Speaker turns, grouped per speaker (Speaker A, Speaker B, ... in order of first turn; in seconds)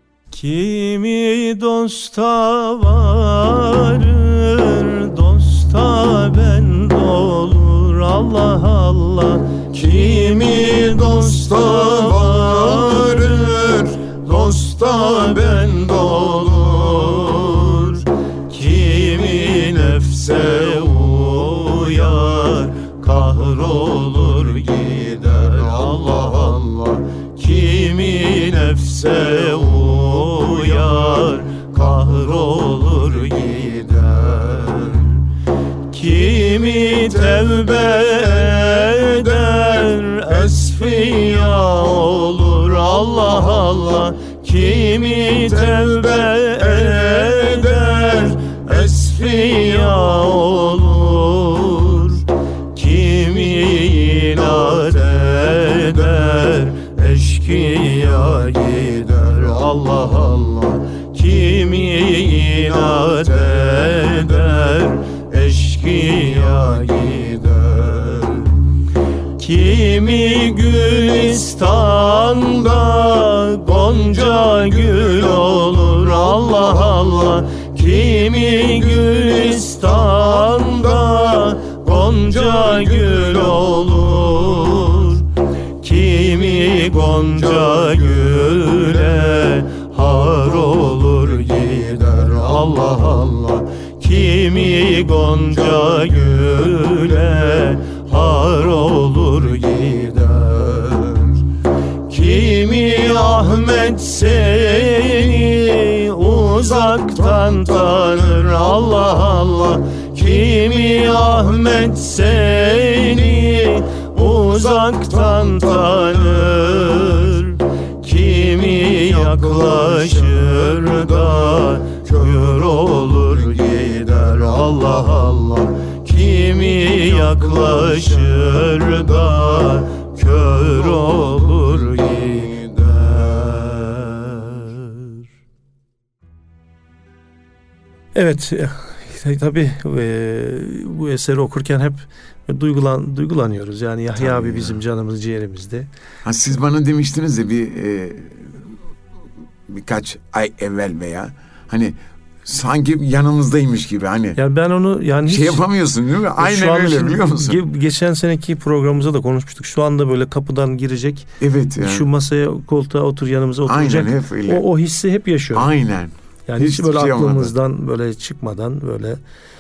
Speaker A: 0.3-35.3, 35.9-68.6, 69.4-85.3, 85.8-101.5, 102.1-135.2, 138.2-145.9, 154.4-155.6, 156.4-165.7, 166.5-169.2
Speaker B: 13.7-14.0, 132.5-132.9, 144.2-144.8, 146.2-148.8, 149.7-154.4, 155.3-157.6, 161.4-162.1, 163.7-164.6, 165.5-167.5